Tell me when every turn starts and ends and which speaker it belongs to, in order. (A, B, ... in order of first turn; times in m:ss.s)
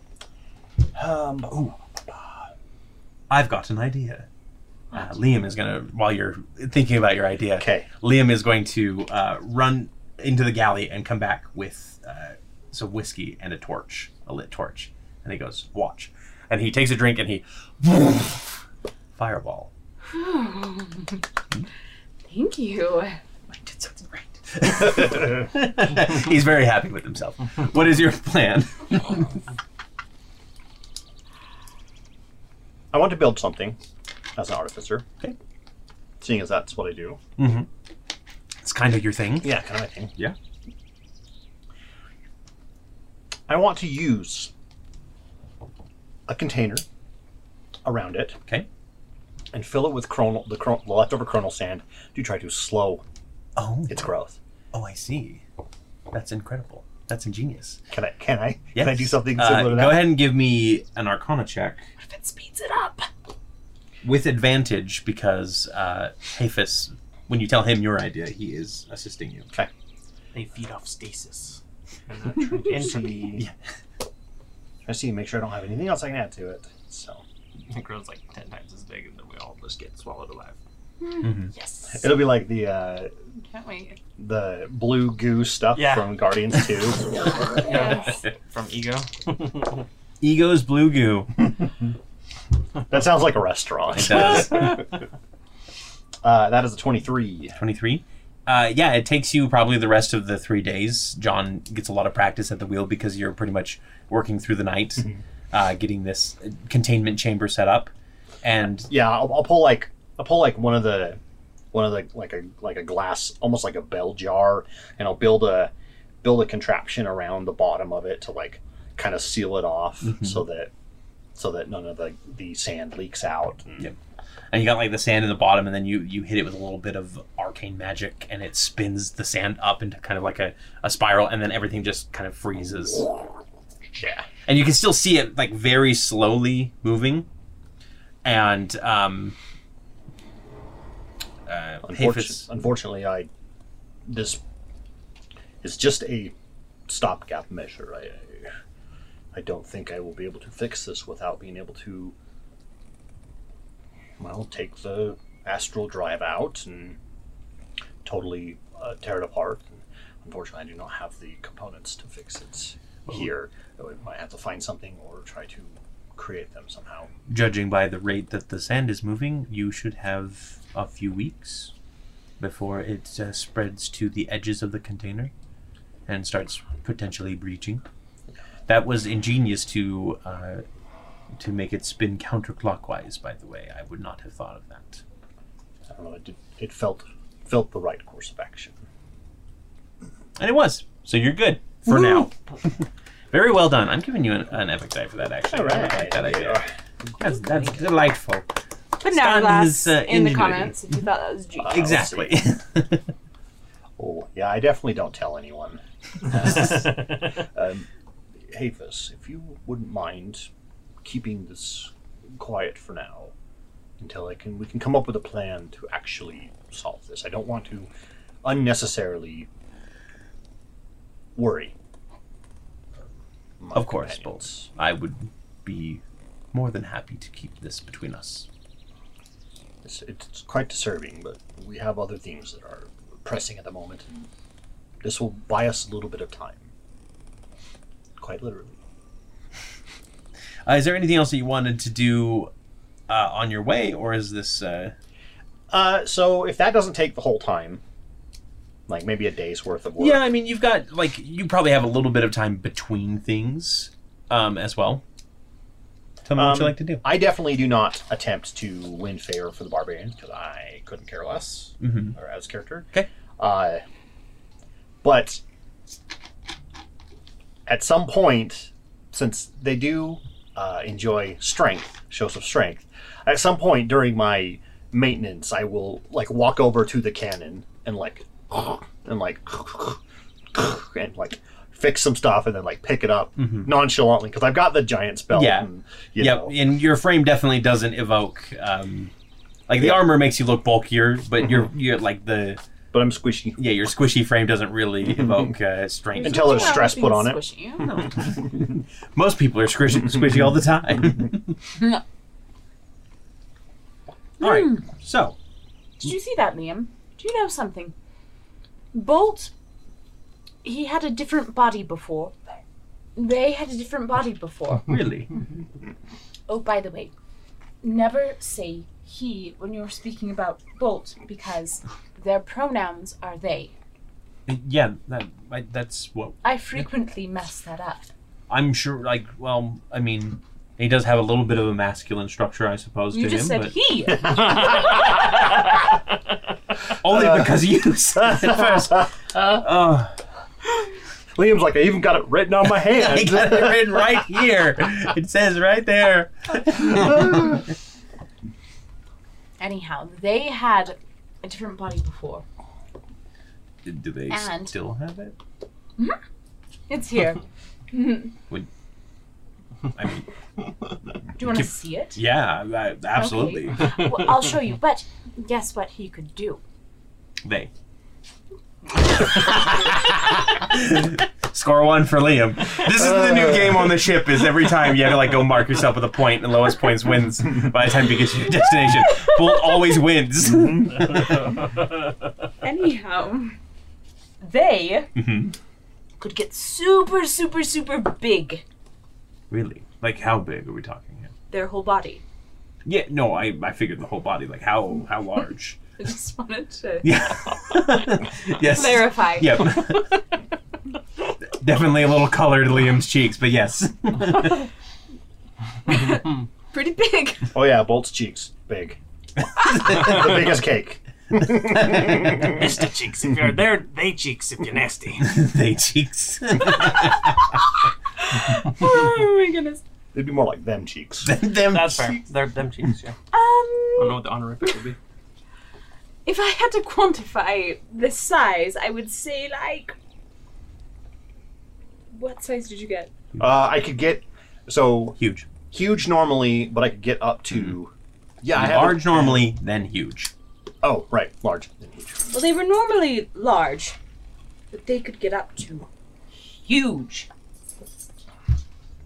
0:01.0-0:02.2 A
0:03.3-0:04.3 B
0:04.9-0:18.6 B
0:07.6-0:07.9 A
0:19.2-0:19.7 B
0:20.1-0:21.2 C
0:22.2-0:23.2 C
0:23.5-0:29.4 B
0:32.9-0:33.8 A
0:34.4-0:35.1 A
0:36.2-0:37.2 A
0:37.4-0:37.7 B
0:38.6-0:39.6 B
0:39.4-0:40.1 A
0:43.5-0:44.5 A
0:46.3-0:46.8 A
0:47.8-0:48.4 A
0:49.5-0:53.0 A
0:53.6-0:54.1 B
0:53.9-0:54.4 A
0:54.7-0:55.4 B
0:56.1-0:57.8 B
0:57.9-1:00.0 A
0:58.8-1:01.8 B
1:02.0-1:03.1 C
1:04.0-1:09.5 B
1:10.3-1:13.4 D
1:14.8-1:17.2 A
1:17.7-1:20.6 D
1:21.0-1:22.2 C
1:21.2-1:21.5 B
1:21.9-1:23.1 A
1:23.5-1:24.0 C
1:24.2-1:27.3 A
1:25.7-1:26.2 D
1:27.5-1:29.8 D
1:27.6-1:28.2 C
1:30.2-1:31.5 B
1:32.9-1:34.9 A
1:33.9-1:34.9 B
1:36.2-1:37.6 A
1:37.6-1:47.9 B
1:48.4-1:48.9 B
1:48.9-1:51.2 A
1:51.7-1:55.7 A
1:56.2-2:00.7 A
2:01.4-2:03.9 A
2:04.5-2:13.1 B
2:14.0-2:14.3 A
2:14.4-2:17.3 B
2:18.2-2:19.4 B
2:21.5-2:22.4 B
2:21.8-2:23.3 A
2:24.1-2:24.4 A
2:25.6-2:26.3 A
2:26.9-2:28.5 A
2:29.3-2:32.1 A
2:34.2-2:37.0 A
2:38.0-2:47.1 A
2:47.3-2:51.7 B
2:52.4-2:55.3 B
2:56.1-2:57.8 B
2:58.7-3:00.6 B
3:01.4-3:05.0 B
3:05.9-3:08.8 A
3:10.4-3:12.3 B
3:13.3-3:16.6 B
3:15.5-3:16.7 A
3:17.2-3:18.4 B
3:19.0-3:21.9 C
3:19.0-3:20.8 B
3:21.6-3:22.4 A
3:21.7-3:23.1 B
3:24.0-3:27.9 A
3:28.4-3:30.5 A
3:31.0-3:33.3 A
3:34.0-3:37.9 A
3:38.4-3:39.5 A
3:41.4-3:41.7 A
3:43.6-3:44.7 A
3:43.7-3:46.0 B
3:46.5-3:48.5 B
3:49.8-3:54.3 A
3:55.0-3:56.7 A
3:58.2-3:58.8 A
4:00.7-4:02.5 B
4:03.1-4:04.9 B
4:05.7-4:07.8 A
4:08.9-4:10.2 A
4:10.0-4:15.0 B
4:16.2-4:17.0 B
4:16.4-4:23.8 A
4:21.8-4:22.1 B
4:25.0-4:25.4 A
4:27.7-4:40.0 A
4:40.5-4:46.6 A
4:43.4-4:43.7 B
4:45.3-4:45.7 B
4:46.2-4:49.1 B
4:49.7-4:52.6 B
4:49.8-4:50.0 A
4:52.9-4:53.6 A
4:53.6-4:56.8 B
4:56.2-4:58.2 C
4:56.2-4:57.4 A
4:58.1-5:01.6 B
5:04.4-5:04.9 C
5:04.4-5:05.4 B
5:06.0-5:08.0 C
5:08.9-5:09.5 C
5:10.6-5:12.4 C
5:13.2-5:14.9 C
5:14.8-5:15.3 B
5:16.5-5:17.1 C
5:17.8-5:23.7 C
5:24.5-5:26.4 B
5:26.4-5:28.1 C
5:28.5-5:33.7 B
5:33.1-5:35.2 C
5:34.5-5:34.8 B
5:37.0-5:40.1 B
5:38.2-5:39.4 A
5:41.4-5:44.2 A
5:42.7-5:47.7 B
5:49.6-5:52.4 C
5:53.8-5:55.4 B
5:54.3-5:54.7 C
5:56.9-5:58.3 C
5:59.9-6:00.3 B
6:01.4-6:02.2 C
6:01.4-6:04.0 B
6:03.1-6:06.6 C
6:07.4-6:07.7 B
6:09.0-6:21.7 B
6:19.1-6:19.8 C
6:22.6-6:23.6 C
6:24.4-6:25.1 C
6:25.2-6:25.5 B
6:26.2-6:28.6 C
6:29.5-6:31.3 B
6:31.5-6:32.2 C
6:32.8-6:35.8 B
6:36.0-6:37.2 C
6:37.0-6:40.2 B
6:38.5-6:40.2 C
6:41.4-6:44.7 B
6:45.9-6:47.5 C
6:47.5-6:49.0 A
6:49.6-6:52.5 A
6:49.7-6:50.2 B
6:52.3-6:55.3 D
6:55.2-6:57.5 B
6:58.2-6:59.8 C
7:00.1-7:01.3 A
7:01.2-7:02.2 B
7:01.7-7:03.2 D
7:03.3-7:04.2 C
7:04.0-7:05.0 D
7:06.2-7:10.0 C
7:12.1-7:13.1 C
7:13.4-7:15.2 A
7:15.2-7:15.5 B
7:15.7-7:19.5 A
7:18.5-7:20.3 B
7:20.8-7:22.3 A
7:22.3-7:24.0 C
7:24.7-7:25.9 C
7:26.6-7:27.3 C